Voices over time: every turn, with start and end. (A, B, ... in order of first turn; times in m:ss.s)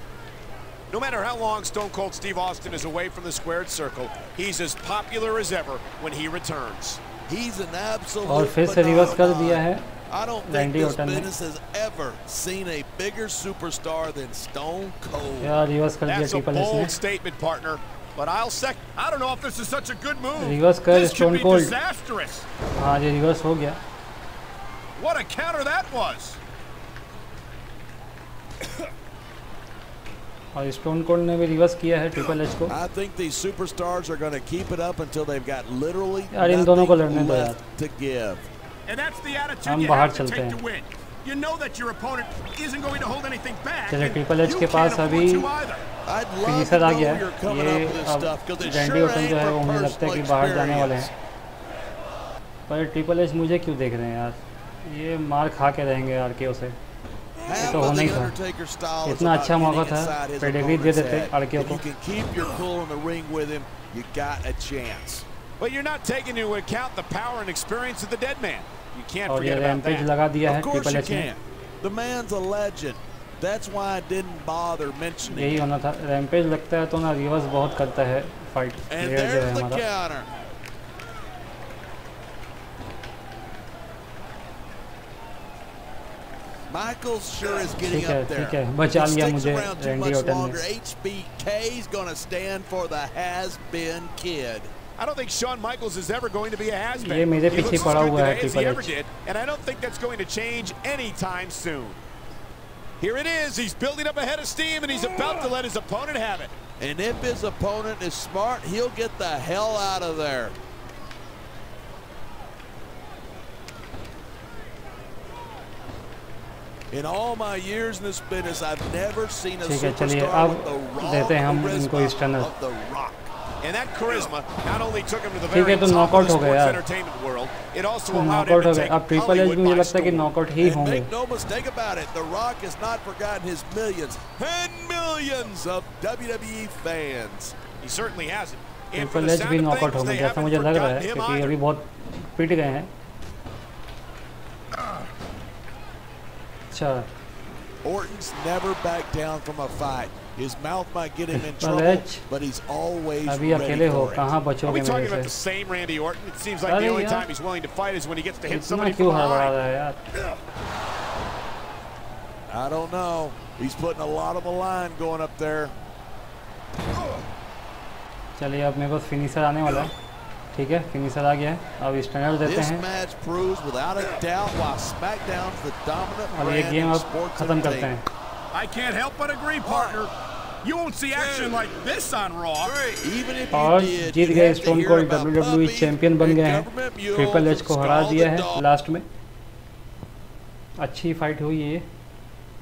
0:00.9-0:07.0 A
0:07.2-0:15.6 B
0:08.2-0:09.8 C
0:10.4-0:11.3 C
0:15.4-0:17.0 C
0:16.0-0:22.4 A
0:20.3-0:21.7 C
0:22.8-0:23.8 C
0:25.0-0:26.4 A
0:30.5-0:32.8 C
0:32.7-0:38.4 B
0:36.3-0:37.6 C
0:38.8-0:45.8 A
0:39.6-0:40.6 C
0:43.9-0:45.5 C
0:46.0-0:51.1 B
0:46.4-0:51.1 C
0:52.7-0:56.8 C
0:57.4-1:05.2 B
0:57.5-0:58.3 C
0:59.0-1:01.8 C
1:05.6-1:10.1 A
1:09.3-1:11.3 C
1:10.4-1:15.7 B
1:15.2-1:19.8 C
1:18.9-1:20.3 B
1:26.7-1:34.7 B
1:27.8-1:30.6 C
1:35.0-1:42.0 A
1:37.0-1:38.9 C
1:43.0-1:46.5 A
1:46.8-1:50.6 B
1:56.9-2:03.3 B
1:59.6-2:02.5 C
2:03.6-2:10.3 A
2:05.5-2:06.8 C
2:08.1-2:11.1 C
2:10.6-2:17.6 B
2:17.8-2:21.5 A
2:18.9-2:22.9 C
2:26.7-2:27.1 C
2:27.8-2:34.4 B
2:31.3-2:32.2 C
2:33.2-2:35.3 C
2:34.6-2:39.5 A
2:36.6-2:37.3 C
2:38.4-2:40.0 C
2:42.5-2:45.7 B
2:48.4-2:49.9 C
2:50.5-2:52.8 C
2:52.4-2:57.9 B
2:56.3-2:58.0 C
2:58.5-3:00.1 A
2:59.6-3:00.0 B
3:00.6-3:02.8 A
3:01.1-3:01.5 B
3:02.8-3:08.6 B
3:03.5-3:09.0 C
3:10.8-3:11.8 C